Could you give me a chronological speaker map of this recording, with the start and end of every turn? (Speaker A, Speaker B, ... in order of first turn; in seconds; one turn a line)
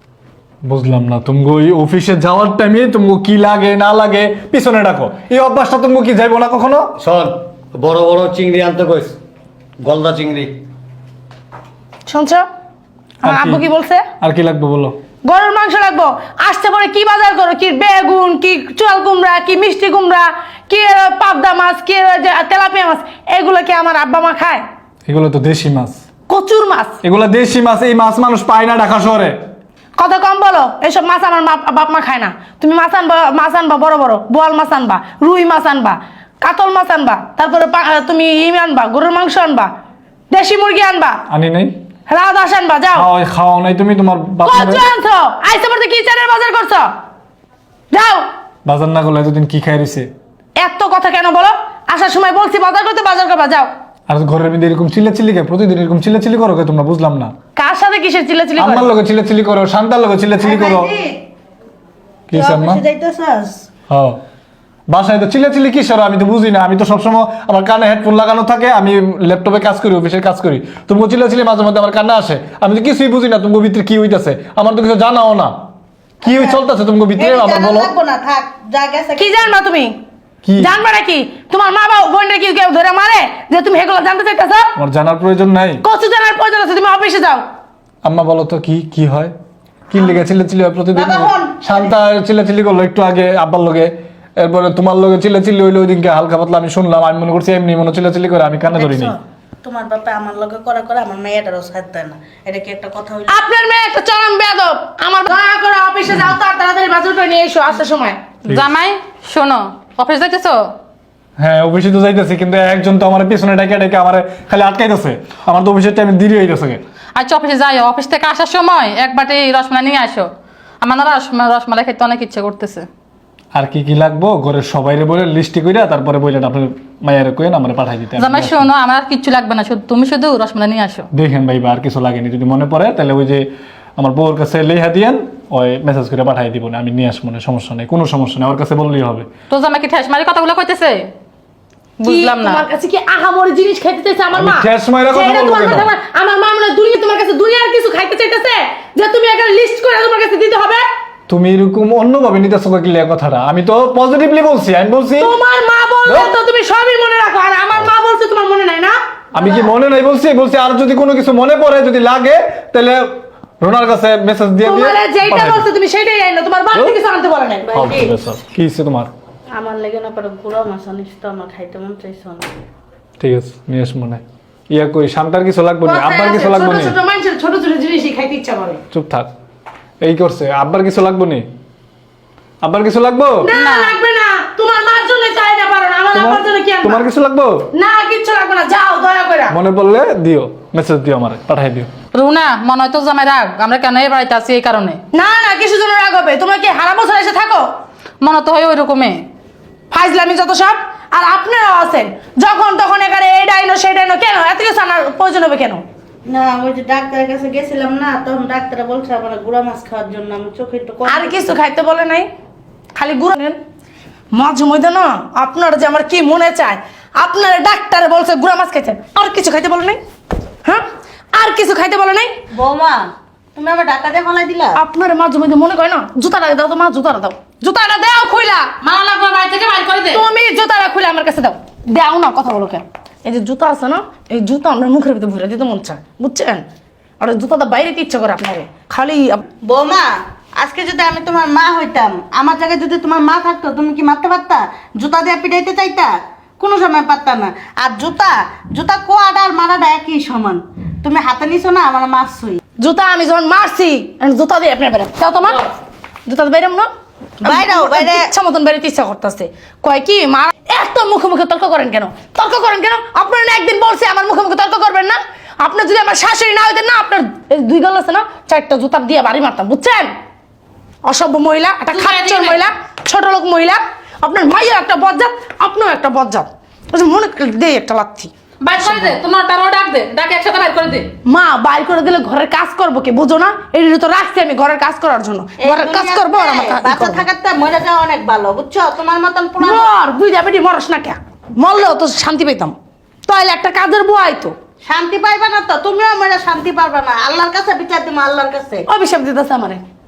Speaker A: 0.6-6.9
Speaker B: 7.0-9.2
Speaker B: 9.8-10.5
Speaker C: 12.1-12.4
Speaker C: 13.2-14.0
Speaker A: 13.2-13.6
Speaker A: 14.2-15.0
Speaker C: 15.2-24.6
Speaker A: 25.1-26.0
Speaker C: 26.3-27.0
Speaker A: 27.0-29.4
Speaker C: 29.9-39.7
Speaker C: 40.3-41.2
Speaker A: 41.3-41.7
Speaker C: 42.1-43.1
Speaker A: 43.0-44.8
Speaker C: 44.4-46.9
Speaker C: 47.9-48.2
Speaker A: 48.6-50.1
Speaker C: 50.6-53.7
Speaker A: 54.1-57.3
Speaker C: 57.5-58.9
Speaker A: 58.6-60.9
Speaker D: 60.4-61.2
Speaker A: 62.3-62.8
Speaker D: 62.3-63.6
Speaker A: 63.9-64.2
Speaker A: 64.9-75.5
Speaker D: 76.2-76.6
Speaker A: 76.2-77.9
Speaker D: 77.1-79.5
Speaker C: 79.2-80.0
Speaker A: 80.4-80.7
Speaker C: 80.6-84.7
Speaker A: 84.8-85.8
Speaker C: 85.8-87.4
Speaker A: 88.0-89.3
Speaker A: 89.9-99.1
Speaker D: 89.9-90.2
Speaker D: 90.9-91.9
Speaker D: 98.7-103.4
Speaker C: 103.3-108.2
Speaker E: 108.5-110.7
Speaker A: 111.4-116.8
Speaker E: 117.1-120.3
Speaker E: 120.8-122.9
Speaker A: 123.5-128.7
Speaker E: 128.2-131.1
Speaker A: 131.1-139.3
Speaker E: 139.5-141.1
Speaker E: 142.0-142.6
Speaker C: 142.0-150.8
Speaker A: 144.3-145.9
Speaker A: 151.3-155.3
Speaker C: 155.2-159.7
Speaker A: 156.1-156.3
Speaker A: 159.3-165.6
Speaker C: 164.6-167.7
Speaker D: 167.7-168.1
Speaker A: 167.7-169.1
Speaker D: 169.6-172.5
Speaker A: 173.2-176.9
Speaker C: 175.8-178.8
Speaker A: 178.9-179.3
Speaker A: 180.0-181.4
Speaker A: 182.6-183.5
Speaker C: 183.4-187.0
Speaker E: 183.5-183.9
Speaker A: 186.1-187.6
Speaker C: 187.7-189.5
Speaker A: 189.5-191.9
Speaker E: 192.1-195.0
Speaker C: 195.1-197.7
Speaker E: 198.2-199.3
Speaker C: 199.9-205.8
Speaker D: 206.2-211.4
Speaker C: 211.1-212.3
Speaker C: 212.9-213.6
Speaker C: 214.3-220.0
Speaker C: 220.6-222.4
Speaker D: 222.5-224.8
Speaker C: 224.7-228.7
Speaker E: 228.8-230.2
Speaker C: 230.1-236.6
Speaker C: 237.2-239.4
Speaker D: 239.6-252.6
Speaker C: 252.8-255.6
Speaker C: 256.2-256.9
Speaker D: 257.4-258.3
Speaker C: 257.4-270.1
Speaker C: 271.0-279.1
Speaker E: 271.9-272.6
Speaker E: 278.6-281.1
Speaker C: 281.2-287.2
Speaker D: 285.6-289.9
Speaker C: 289.6-292.7
Speaker C: 293.2-294.5
Speaker D: 294.8-298.8
Speaker C: 298.9-299.8